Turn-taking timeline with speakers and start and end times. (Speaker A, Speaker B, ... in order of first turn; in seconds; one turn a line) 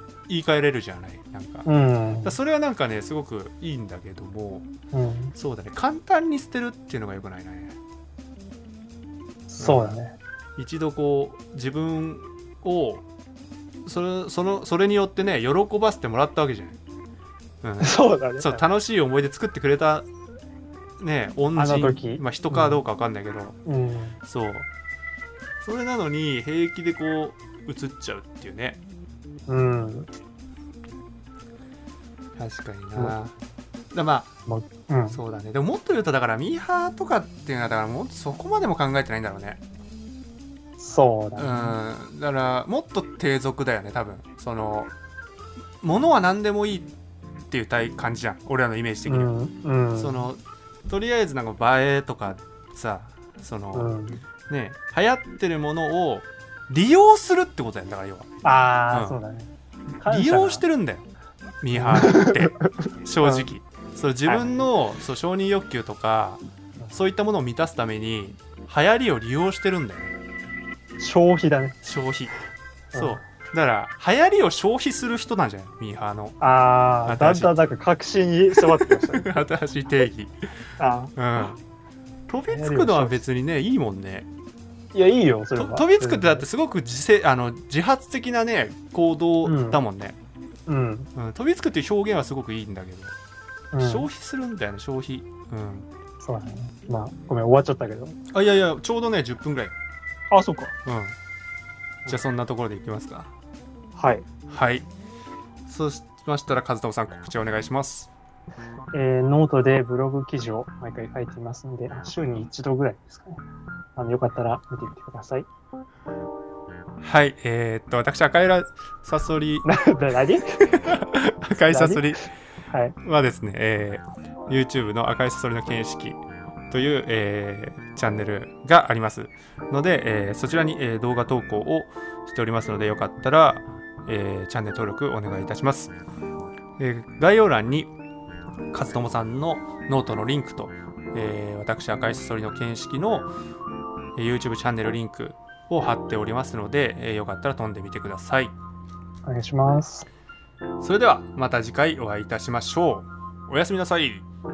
Speaker A: 0.3-1.7
Speaker B: 1.6-2.4
Speaker A: 2.2-4.7
Speaker B: 4.9-5.3
Speaker A: 5.3-7.8
Speaker B: 9.5-10.2
Speaker A: 9.6-9.9
Speaker A: 10.6-13.0
Speaker A: 13.8-16.8
Speaker A: 17.6-20.1
Speaker B: 17.8-18.6
Speaker A: 21.0-23.6
Speaker B: 21.5-22.8
Speaker B: 23.6-24.2
Speaker A: 24.2-24.7
Speaker A: 25.6-28.8
Speaker B: 29.5-30.1
Speaker A: 32.4-33.3
Speaker A: 33.9-34.3
Speaker B: 34.5-35.2
Speaker A: 35.1-39.6
Speaker B: 40.8-41.8
Speaker A: 41.4-44.9
Speaker A: 45.8-46.9
Speaker A: 47.5-49.3
Speaker B: 49.1-50.2
Speaker A: 50.0-53.9
Speaker B: 53.7-54.2
Speaker A: 54.5-58.3
Speaker B: 58.4-60.6
Speaker A: 58.9-59.2
Speaker A: 60.0-61.1
Speaker A: 61.6-70.1
Speaker B: 61.7-63.5
Speaker B: 64.2-64.7
Speaker B: 71.0-71.8
Speaker A: 71.8-72.3
Speaker B: 72.9-73.2
Speaker A: 72.9-76.3
Speaker B: 76.4-79.3
Speaker A: 77.0-77.5
Speaker A: 78.5-80.3
Speaker B: 80.8-81.2
Speaker A: 81.2-81.6
Speaker A: 82.3-84.3
Speaker B: 82.5-83.2
Speaker B: 84.9-86.5
Speaker A: 85.5-90.2
Speaker B: 89.4-89.8
Speaker B: 90.7-91.1
Speaker A: 91.1-93.1
Speaker B: 93.7-94.1
Speaker A: 93.8-95.9
Speaker B: 96.2-98.2
Speaker A: 98.3-99.7
Speaker B: 100.3-100.7
Speaker A: 100.8-101.2
Speaker A: 102.0-103.3
Speaker B: 103.9-104.2
Speaker A: 104.5-104.9
Speaker A: 105.7-108.1
Speaker B: 108.9-113.4
Speaker B: 114.0-115.5
Speaker A: 117.0-119.7
Speaker B: 119.6-120.9
Speaker A: 120.6-122.3
Speaker B: 121.7-123.0
Speaker A: 123.0-126.2
Speaker A: 126.7-135.9
Speaker A: 136.8-137.9
Speaker A: 138.7-143.3
Speaker A: 144.2-148.5
Speaker B: 149.2-150.1
Speaker A: 150.8-154.2